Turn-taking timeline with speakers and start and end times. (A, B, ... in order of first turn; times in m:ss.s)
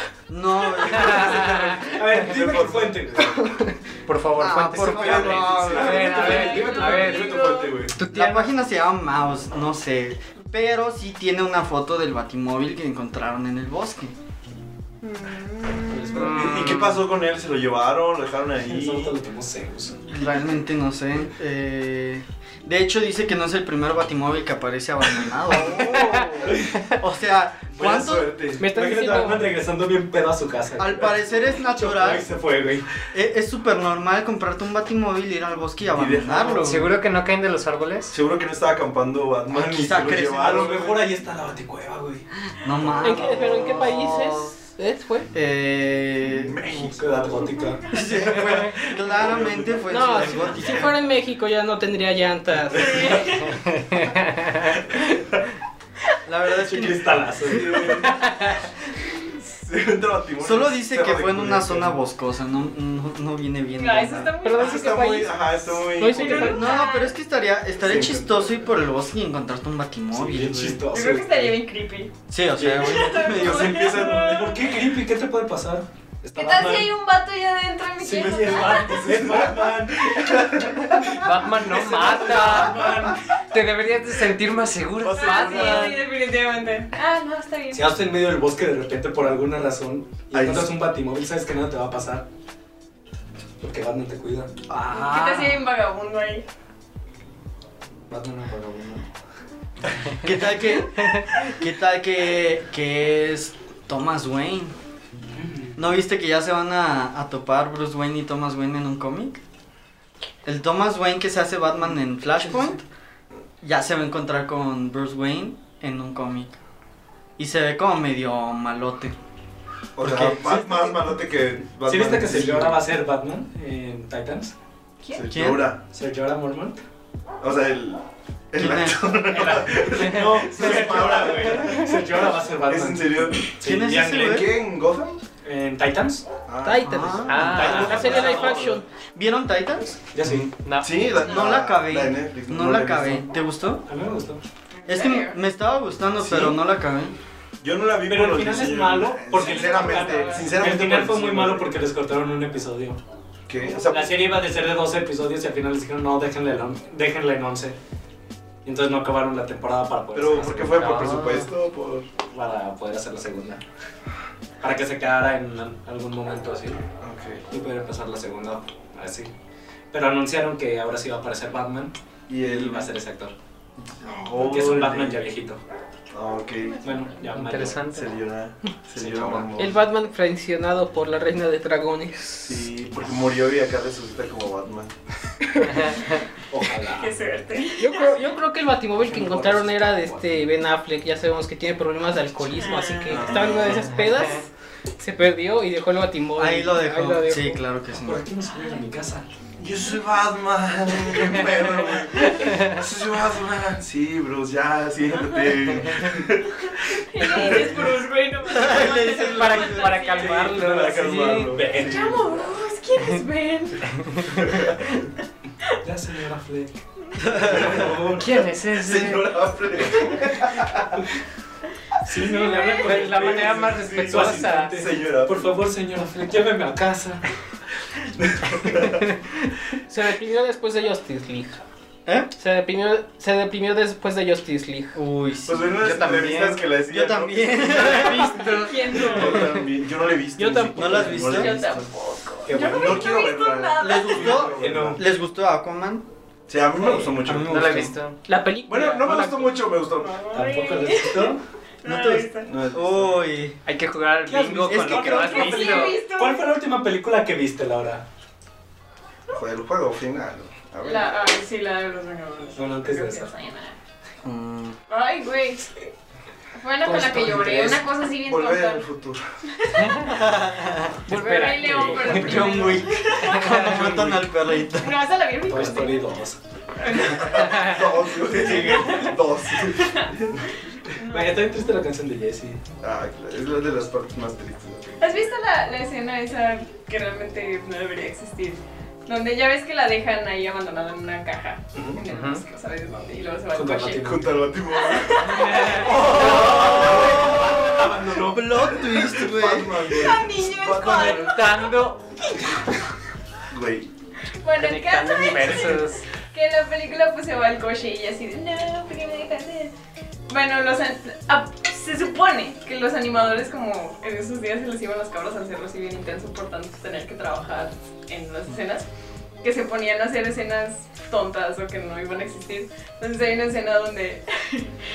0:00.3-0:01.6 A
0:01.0-0:01.7 B
0:01.0-0:03.4 C
0:01.4-0:03.5 D
0:04.1-0:08.5 B
0:04.4-0:06.1 A
0:04.8-0:07.9 D
0:05.0-0:07.9 C
0:06.0-0:07.9 E
0:08.1-0:14.1 A
0:15.0-0:16.3 E
0:15.9-0:16.7 C
0:16.1-0:19.2 D
0:16.1-0:16.9 B
0:18.6-0:20.1 C
0:20.1-0:28.3 A
0:26.4-0:26.7 D
0:27.8-0:28.7 D
0:28.6-0:32.9 C
0:28.6-0:29.5 F
0:30.8-0:32.3 A
0:33.1-0:36.9 A
0:35.9-0:36.8 D
0:36.6-0:38.2 B
0:38.1-0:41.1 D
0:39.5-0:40.9 A
0:40.3-0:42.3 C
0:42.6-0:44.5 A
0:42.8-0:43.4 D
0:43.0-0:45.3 F
0:45.3-0:46.8 A
0:46.2-0:50.9 D
0:46.7-0:47.8 C
0:47.9-0:51.0 A
0:49.9-0:53.1 F
0:52.8-0:53.3 D
0:52.8-0:53.6 E
0:53.7-0:54.5 B
0:54.9-0:55.2 D
0:56.3-0:57.8 A
0:56.6-0:58.0 C
0:57.4-0:58.3 D
0:59.4-1:02.0 D
1:00.4-1:04.3 A
1:03.8-1:05.2 E
1:04.4-1:06.6 F
1:04.5-1:06.8 D
1:06.1-1:07.2 E
1:06.3-1:10.8 A
1:07.8-1:08.6 D
1:10.1-1:11.6 C
1:10.9-1:12.1 E
1:12.3-1:13.8 A
1:12.6-1:14.6 D
1:12.8-1:14.6 E
1:13.7-1:16.9 C
1:16.4-1:19.1 E
1:18.0-1:20.7 C
1:18.1-1:23.1 D
1:21.2-1:23.0 B
1:21.7-1:23.2 C
1:23.5-1:26.0 B
1:25.0-1:26.0 D
1:25.2-1:27.9 E
1:27.7-1:32.3 C
1:30.3-1:30.7 D
1:33.6-1:34.5 C
1:34.7-1:35.6 A
1:34.9-1:36.4 E
1:38.1-1:39.1 C
1:40.2-1:44.8 A
1:45.3-1:45.8 C
1:45.8-1:49.4 A
1:50.4-1:52.8 A
1:53.6-1:56.6 A
1:57.4-1:59.2 A
2:00.0-2:02.8 D
2:00.0-2:00.5 A
2:00.3-2:00.7 C
2:01.9-2:04.5 C
2:05.0-2:05.3 E
2:05.2-2:05.8 D
2:05.3-2:05.7 A
2:05.9-2:06.8 C
2:07.4-2:13.5 D
2:08.6-2:09.1 A
2:09.3-2:14.4 C
2:13.6-2:14.5 A
2:14.1-2:15.2 D
2:15.4-2:16.3 C
2:16.5-2:18.8 D
2:16.6-2:18.8 F
2:16.8-2:17.9 A
2:17.3-2:18.0 B
2:17.5-2:18.6 C
2:19.2-2:20.4 A
2:20.1-2:20.5 C
2:20.2-2:23.3 D
2:20.5-2:21.0 B
2:21.2-2:23.8 A
2:21.2-2:21.6 E
2:23.9-2:24.4 C
2:24.8-2:25.4 E
2:24.9-2:27.2 A
2:26.2-2:26.6 D
2:27.6-2:31.7 D
2:28.1-2:33.0 C
2:29.3-2:30.6 E
2:33.5-2:34.2 D
2:33.8-2:37.8 C
2:38.6-2:41.3 C
2:40.2-2:42.1 D
2:42.3-2:43.6 C
2:44.6-2:46.8 C
2:47.0-2:47.4 D
2:47.5-2:49.3 C
2:49.9-2:53.3 C
2:52.3-2:52.9 D
2:53.8-2:55.2 D
2:54.4-2:55.6 C
2:56.1-2:56.8 D
2:56.8-2:57.2 E
2:56.8-2:57.8 C
2:57.3-2:58.1 B
2:57.9-2:59.8 D
2:59.0-2:59.5 C
2:59.6-3:02.7 F
3:02.4-3:05.0 D
3:05.6-3:06.2 B
3:06.5-3:07.1 C
3:06.8-3:08.3 E
3:07.8-3:14.5 F
3:09.1-3:10.2 C
3:12.6-3:13.5 E
3:13.1-3:14.0 D
3:13.9-3:14.3 B
3:15.0-3:17.6 F
3:16.4-3:18.3 A
3:17.9-3:19.3 C
3:19.6-3:28.0 D
3:22.3-3:22.8 B
3:25.9-3:26.1 B
3:27.1-3:30.5 E
3:28.4-3:29.9 A
3:28.6-3:29.1 D
3:29.2-3:31.6 B
3:30.2-3:32.3 C
3:30.2-3:32.4 D
3:31.7-3:34.0 E
3:34.0-3:34.4 B
3:34.4-3:34.9 D
3:35.8-3:36.7 C
3:37.2-3:37.5 A
3:37.3-3:41.0 D
3:37.3-3:38.3 C
3:38.1-3:39.3 B
3:42.0-3:47.3 C
3:42.2-3:42.9 E
3:42.6-3:44.8 B
3:43.0-3:45.5 D
3:48.2-3:49.1 D
3:49.9-3:51.6 F
3:52.4-3:55.0 F
3:55.0-3:58.7 A
3:55.5-4:01.9 D
3:55.8-3:56.6 B
3:58.4-3:59.6 E
4:00.4-4:01.4 F
4:00.7-4:01.6 A
4:01.3-4:04.6 E
4:02.5-4:03.2 C
4:02.5-4:05.0 D
4:03.8-4:06.1 A
4:04.2-4:05.0 C
4:06.5-4:07.9 D
4:06.8-4:07.2 C
4:07.2-4:07.9 A
4:07.3-4:08.2 B
4:08.3-4:09.6 F
4:08.7-4:10.2 D
4:10.0-4:12.5 E
4:10.3-4:11.4 C
4:11.8-4:13.6 A
4:12.4-4:13.2 D
4:13.7-4:16.0 B
4:14.3-4:18.0 C
4:14.7-4:15.2 A
4:15.1-4:16.5 E
4:19.3-4:21.3 D
4:20.8-4:23.8 E
4:22.6-4:23.3 C
4:24.2-4:24.8 A
4:24.9-4:25.9 E
4:26.6-4:28.9 E
4:26.8-4:27.9 C
4:28.1-4:29.2 D
4:29.6-4:30.2 E
4:30.0-4:31.1 A
4:31.1-4:32.6 B
4:31.1-4:33.7 E
4:31.7-4:32.4 C
4:32.1-4:35.0 A
4:33.3-4:34.1 B
4:33.7-4:34.2 C
4:34.5-4:36.2 E
4:35.5-4:36.4 C
4:36.8-4:37.7 E
4:36.9-4:40.4 D
4:38.2-4:39.2 C
4:38.5-4:41.7 E
4:41.1-4:42.6 C
4:42.8-4:45.2 D
4:45.0-4:54.2 E
4:51.7-4:52.0 C
4:52.1-4:52.4 B
4:53.5-4:54.4 C
4:54.0-5:01.4 D
4:54.7-4:56.2 E
4:55.3-4:56.6 B
4:55.8-4:59.9 A
4:56.1-4:58.8 C
4:59.8-5:01.8 E
5:00.8-5:02.0 B
5:03.5-5:03.9 D
5:04.4-5:09.7 E
5:04.6-5:06.1 B
5:10.3-5:18.9 E
5:19.4-5:24.7 E